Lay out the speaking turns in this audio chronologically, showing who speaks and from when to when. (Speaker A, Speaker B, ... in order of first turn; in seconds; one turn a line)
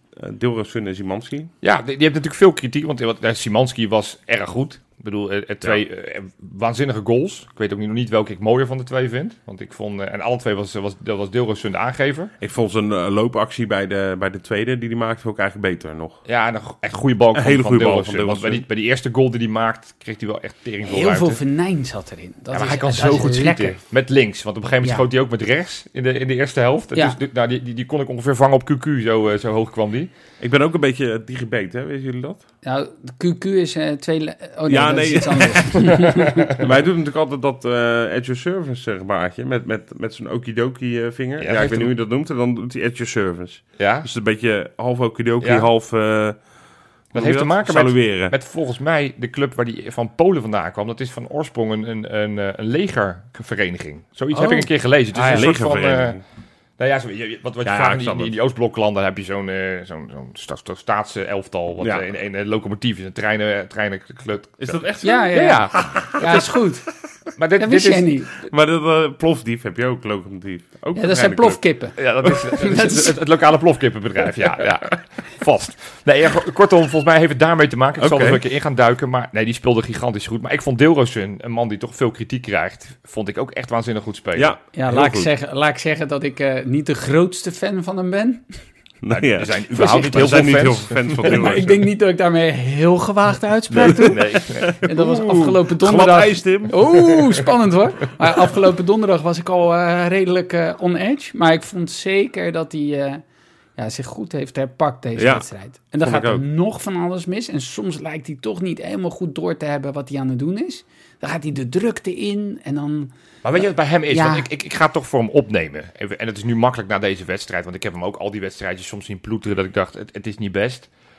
Speaker A: 0.2-1.5
Speaker B: 1.6-12.3
Speaker A: 12.4-16.2
Speaker B: 16.3-21.4
Speaker A: 17.3-18.6
Speaker C: 20.9-23.8
Speaker B: 22.5-30.1
Speaker A: 30.4-32.4
Speaker C: 32.6-36.5
Speaker A: 34.7-46.4
Speaker B: 41.4-41.9
Speaker B: 43.8-44.1
Speaker B: 45.4-45.7
Speaker A: 47.1-48.3
Speaker B: 47.1-56.2
Speaker A: 54.3-54.7
Speaker C: 55.1-55.5
Speaker A: 55.2-56.2
Speaker B: 56.8-66.5
Speaker A: 57.6-58.4
Speaker A: 64.6-66.3
Speaker C: 65.0-66.8
Speaker B: 67.4-68.1
Speaker C: 67.6-68.3
Speaker A: 68.5-71.6
Speaker C: 71.0-73.1
Speaker B: 72.0-84.5
Speaker A: 78.0-78.4
Speaker A: 84.4-85.3
Speaker C: 84.8-88.6
Speaker A: 89.0-91.8
Speaker B: 89.1-91.4
Speaker C: 91.2-103.2
Speaker B: 93.7-94.7
Speaker A: 93.8-96.8
Speaker C: 103.8-113.1
Speaker A: 105.2-105.4
Speaker A: 106.0-106.4
Speaker B: 113.4-120.9
Speaker C: 114.1-114.5